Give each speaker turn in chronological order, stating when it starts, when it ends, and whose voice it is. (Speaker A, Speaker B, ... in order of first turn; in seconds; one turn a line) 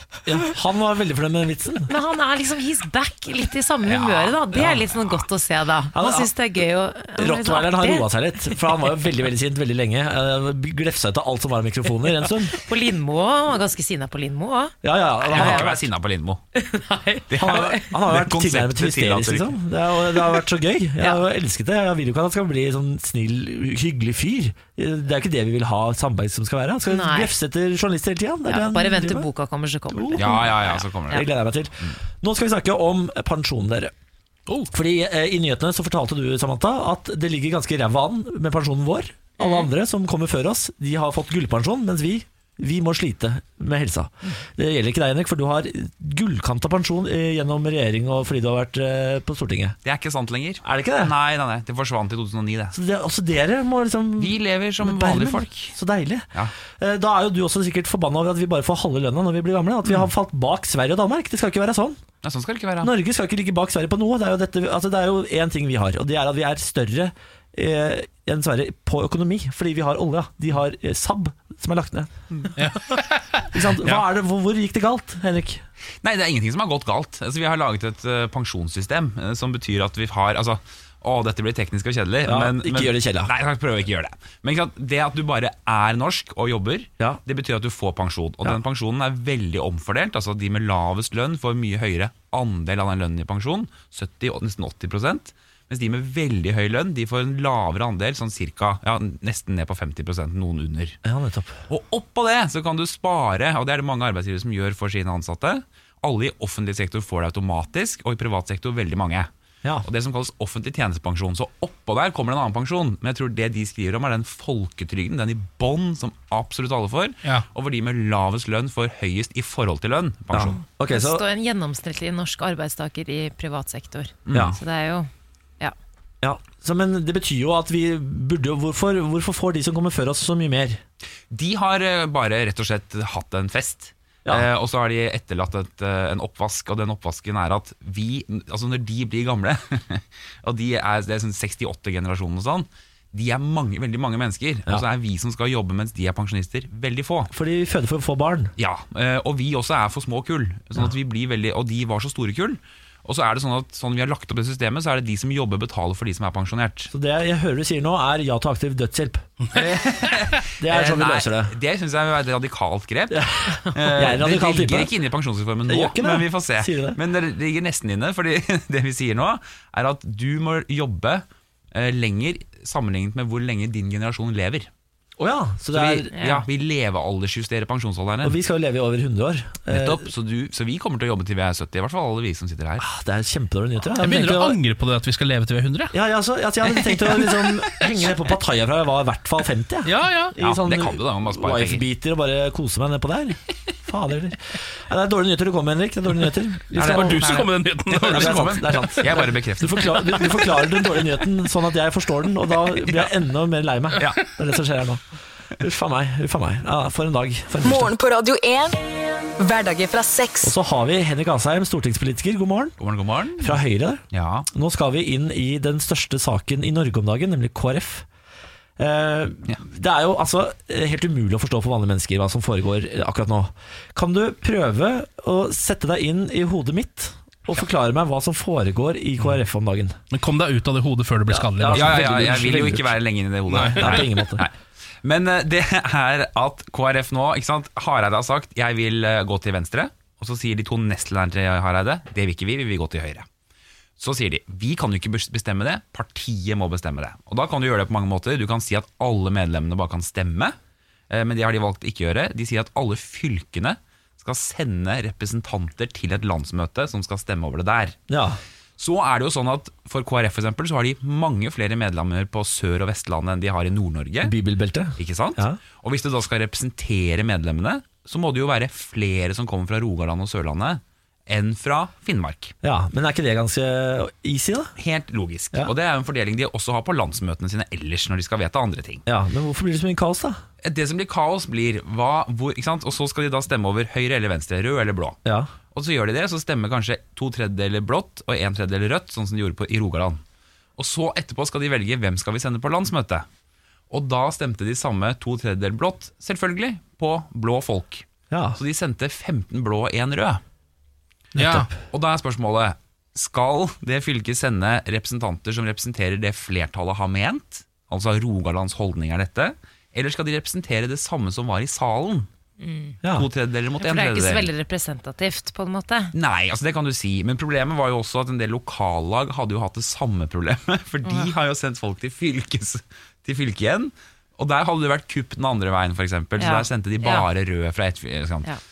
Speaker A: 0.2-1.9
Speaker B: 1.9-8.1
Speaker C: 3.9-4.4
Speaker A: 5.9-6.3
Speaker A: 7.2-12.5
Speaker B: 12.5-14.8
Speaker A: 14.8-15.8
Speaker C: 15.2-16.4
Speaker B: 15.3-15.7
Speaker B: 16.5-17.8
Speaker C: 17.3-19.6
Speaker A: 17.4-29.3
Speaker B: 26.9-27.3
Speaker B: 28.5-31.2
Speaker A: 29.9-30.4
Speaker C: 30.2-31.2
Speaker A: 31.1-33.9
Speaker A: 34.7-49.8
Speaker C: 49.8-52.7
Speaker A: 50.6-51.1
Speaker A: 52.7-62.0
Speaker C: 54.2-55.8
Speaker C: 62.2-62.9
Speaker A: 62.8-72.1
Speaker D: 72.6-74.0
Speaker A: 73.5-75.6
Speaker C: 76.0-101.0
Speaker A: 82.2-83.3
Speaker A: 101.0-101.6
Speaker C: 101.7-109.3
Speaker C: 109.8-120.6
Speaker A: 120.3-121.2
Speaker B: 120.9-125.1
Speaker C: 124.3-124.6
Speaker A: 126.2-130.8
Speaker C: 131.3-147.3
Speaker A: 147.3-148.5
Speaker C: 148.6-156.9
Speaker A: 156.9-159.2
Speaker C: 159.5-174.7
Speaker A: 160.6-161.5
Speaker A: 163.1-164.9
Speaker A: 165.7-167.0
Speaker A: 175.2-176.1
Speaker C: 175.7-178.4
Speaker B: 176.1-176.5
Speaker A: 178.2-180.1
Speaker C: 179.7-182.8
Speaker A: 182.8-184.6
Speaker D: 184.0-185.9
Speaker A: 185.9-197.4
Speaker D: 186.8-188.1
Speaker D: 189.8-190.3
Speaker C: 190.4-191.8
Speaker C: 196.7-200.2
Speaker D: 196.8-198.6
Speaker A: 198.0-205.0
Speaker A: 205.6-207.9
Speaker E: 207.6-208.8
Speaker E: 209.4-210.5
Speaker A: 210.4-212.8
Speaker C: 212.8-214.5
Speaker A: 213.4-218.0
Speaker A: 218.8-230.0
Speaker D: 230.1-232.1
Speaker A: 231.3-233.0
Speaker C: 231.7-234.5
Speaker D: 233.5-234.1
Speaker A: 233.5-234.4
Speaker C: 235.0-243.2
Speaker C: 244.0-250.6
Speaker C: 251.1-257.9
Speaker A: 258.1-258.4
Speaker C: 258.8-264.3
Speaker A: 264.2-265.6
Speaker C: 265.0-272.5
Speaker A: 272.6-274.7
Speaker C: 274.8-279.0
Speaker A: 279.1-280.4
Speaker C: 280.6-285.2
Speaker A: 285.2-285.5
Speaker C: 285.7-290.2
Speaker C: 290.8-293.2
Speaker C: 293.9-298.0
Speaker A: 298.3-298.6
Speaker C: 298.6-300.4
Speaker A: 301.3-301.8
Speaker D: 301.4-301.7
Speaker C: 301.9-312.3
Speaker B: 312.6-313.0
Speaker C: 313.1-314.5
Speaker B: 313.8-316.1
Speaker C: 316.1-328.5
Speaker B: 321.0-321.3
Speaker B: 326.4-327.3